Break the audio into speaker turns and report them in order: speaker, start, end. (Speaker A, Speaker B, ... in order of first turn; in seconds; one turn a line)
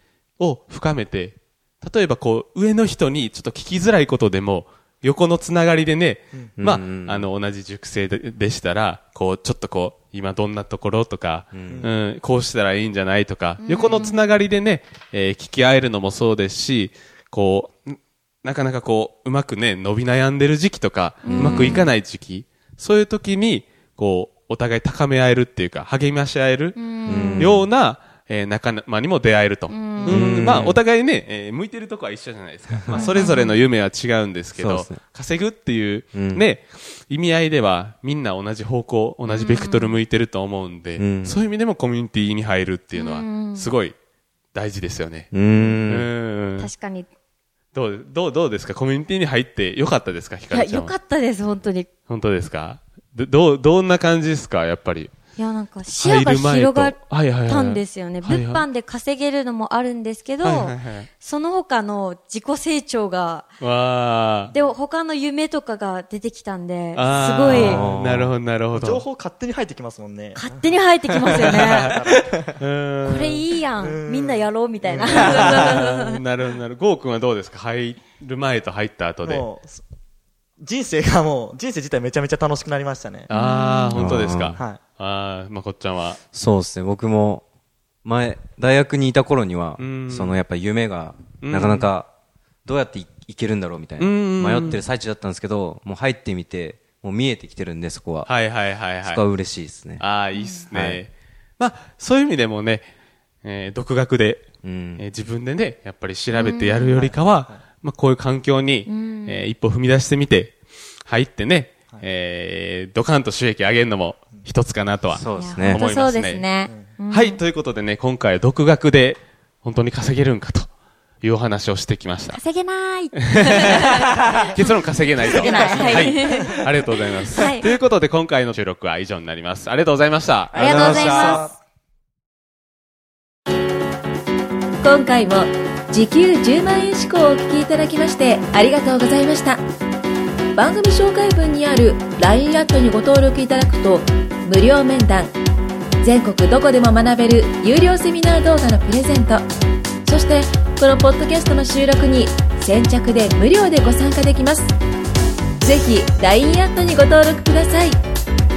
Speaker A: 0.4-44.0
Speaker B: 6.6-7.3
Speaker B: 11.5-11.9
Speaker C: 11.7-12.0
Speaker D: 13.6-14.2
Speaker D: 21.2-21.9
Speaker B: 21.3-21.9
Speaker D: 26.8-27.5
Speaker B: 27.1-27.7
Speaker D: 29.7-30.2
Speaker C: 30.0-30.5
Speaker B: 30.1-30.8
Speaker D: 32.9-33.6
Speaker B: 34.6-35.0
Speaker B: 36.1-36.5
Speaker D: 39.3-40.0
Speaker B: 41.0-41.4
Speaker D: 42.9-43.7
Speaker A: 44.5-46.7
Speaker B: 45.3-46.1
Speaker D: 46.6-47.1
Speaker A: 47.7-51.0
Speaker D: 50.5-51.9
Speaker A: 52.1-55.1
Speaker D: 55.4-63.5
Speaker A: 55.9-58.6
Speaker A: 60.4-61.1
Speaker A: 63.6-64.5
Speaker D: 64.5-67.8
Speaker A: 66.9-69.0
Speaker B: 67.5-68.3
Speaker C: 68.7-72.6
Speaker D: 70.3-72.0
Speaker A: 71.4-72.0
Speaker A: 72.6-73.5
Speaker D: 73.0-76.2
Speaker C: 73.8-75.7
Speaker A: 75.0-79.5
Speaker C: 79.2-79.8
Speaker C: 80.6-83.3
Speaker D: 83.3-84.1
Speaker A: 83.3-86.2
Speaker B: 84.0-84.6
Speaker C: 84.6-84.8
Speaker B: 86.3-87.4
Speaker B: 88.0-92.1
Speaker A: 89.8-90.4
Speaker A: 91.4-91.9
Speaker B: 92.7-98.3
Speaker A: 94.0-94.8
Speaker A: 98.2-99.2
Speaker B: 99.0-100.1
Speaker A: 100.0-102.9
Speaker D: 100.3-100.7
Speaker B: 100.7-101.0
Speaker A: 103.4-104.5
Speaker B: 104.6-105.0
Speaker A: 105.0-116.5
Speaker D: 106.3-106.9
Speaker C: 106.9-107.6
Speaker D: 108.9-109.5
Speaker B: 115.1-115.8
Speaker D: 115.3-117.4
Speaker C: 116.7-117.0
Speaker A: 117.1-120.7
Speaker A: 121.2-122.4
Speaker D: 122.3-124.5
Speaker A: 123.2-130.9
Speaker D: 125.2-127.8
Speaker C: 125.4-126.6
Speaker C: 130.5-131.6
Speaker B: 130.5-131.5
Speaker D: 130.6-131.5
Speaker E: 134.8-139.6
Speaker E: 140.6-145.4
Speaker E: 146.0-149.5
Speaker E: 150.1-154.8
Speaker E: 155.6-158.0